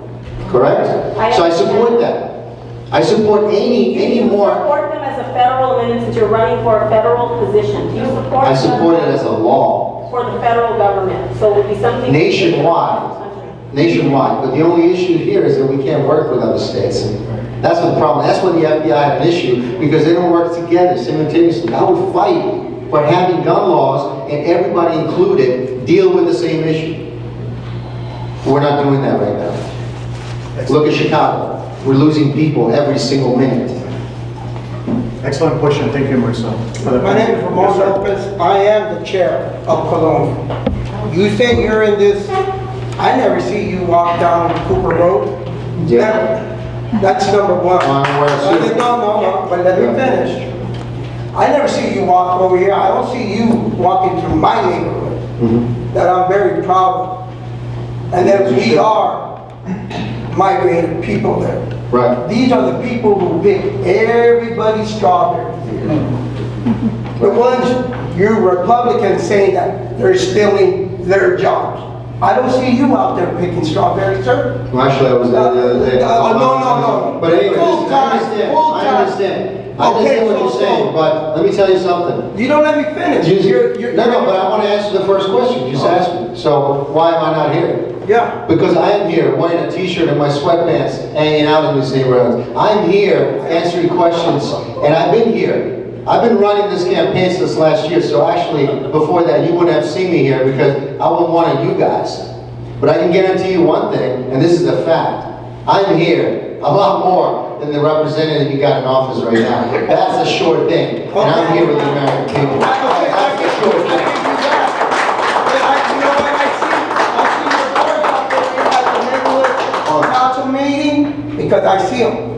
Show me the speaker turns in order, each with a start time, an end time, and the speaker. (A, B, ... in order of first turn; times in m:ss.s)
0:00.5-0:02.4 A
0:01.2-0:02.0 B
0:02.9-0:04.6 A
0:03.9-0:09.2 B
0:08.4-0:10.1 A
0:10.1-0:13.5 B
0:12.1-0:13.1 A
0:13.7-0:27.0 A
0:28.4-0:29.7 A
0:30.7-0:33.9 A
0:35.2-0:38.0 C
0:36.8-0:40.4 D
0:41.0-0:42.4 D
0:43.0-0:45.4 D
0:45.8-0:46.2 A
0:45.9-0:46.4 D
0:46.9-0:50.6 D
0:47.8-0:49.0 A
0:49.7-0:50.1 A
0:51.3-0:55.2 D
0:55.4-0:55.7 A
0:55.9-0:57.2 D
0:58.1-0:59.3 D
0:58.2-0:58.9 A
1:00.3-1:01.6 D
1:01.9-1:02.2 A
1:02.2-1:06.0 D
1:07.2-1:14.6 D
1:14.7-1:22.3 A
1:15.3-1:19.1 D
1:19.8-1:21.0 D
1:22.3-1:24.5 D
1:23.2-1:27.9 A
1:28.0-1:28.4 D
1:28.5-1:42.3 A
1:42.8-1:54.4 A
1:51.1-2:02.2 D
1:59.8-2:00.1 A